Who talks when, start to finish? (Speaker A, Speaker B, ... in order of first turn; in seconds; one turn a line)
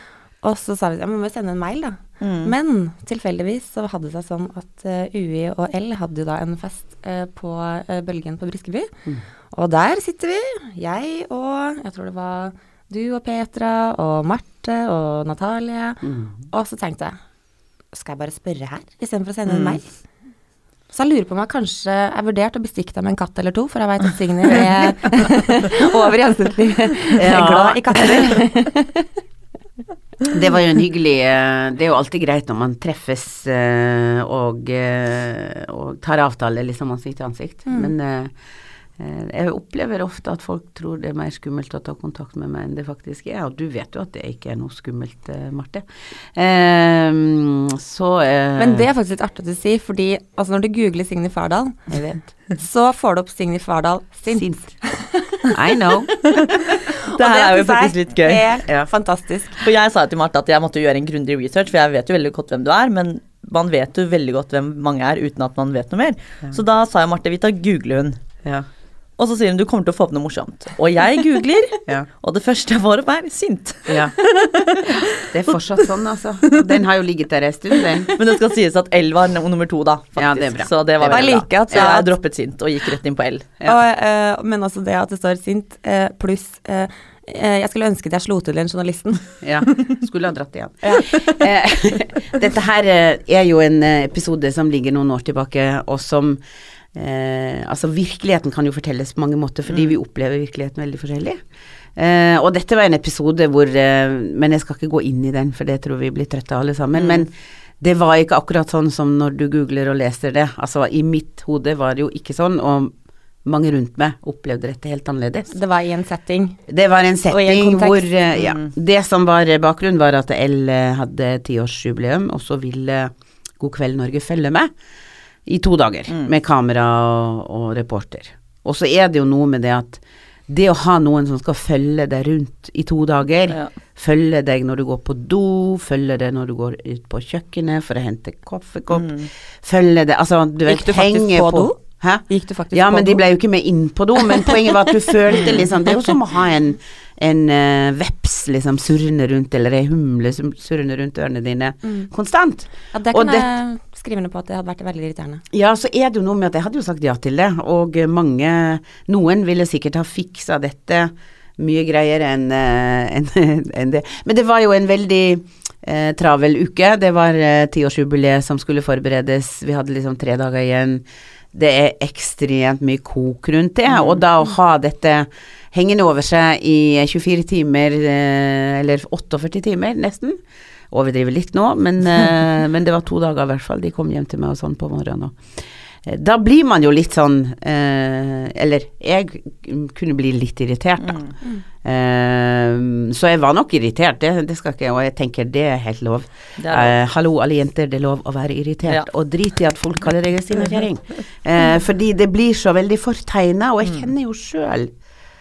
Speaker A: 0.4-8.9
Speaker B: 2.2-2.5
Speaker A: 9.5-17.2
Speaker C: 16.0-16.4
Speaker A: 17.9-20.0
Speaker B: 19.4-19.8
Speaker A: 20.9-29.1
Speaker C: 27.2-28.4
Speaker C: 30.3-38.4
Speaker A: 37.6-37.9
Speaker C: 39.0-48.8
Speaker A: 48.6-55.5
Speaker C: 51.9-52.2
Speaker C: 54.3-54.7
Speaker C: 55.5-56.1
Speaker A: 56.1-59.6
Speaker B: 57.1-58.5
Speaker B: 59.6-68.2
Speaker B: 69.2-75.3
Speaker C: 73.9-74.1
Speaker C: 75.2-78.1
Speaker B: 78.1-83.5
Speaker C: 80.2-81.8
Speaker A: 81.1-82.1
Speaker A: 83.6-89.3
Speaker C: 89.4-96.4
Speaker A: 90.8-91.4
Speaker C: 96.9-101.4
Speaker C: 102.0-115.5
Speaker B: 107.0-107.2
Speaker A: 115.5-116.6
Speaker C: 116.7-124.7
Speaker A: 117.3-118.1
Speaker B: 118.4-118.7
Speaker C: 125.5-153.5
Speaker B: 138.9-139.3
Speaker A: 140.7-143.2
Speaker A: 144.2-144.8
Speaker A: 151.8-152.1
Speaker A: 152.9-155.4
Speaker C: 155.5-180.4
Speaker B: 173.9-174.2
Speaker C: 180.9-204.9
Speaker B: 191.0-191.3
Speaker B: 196.6-196.9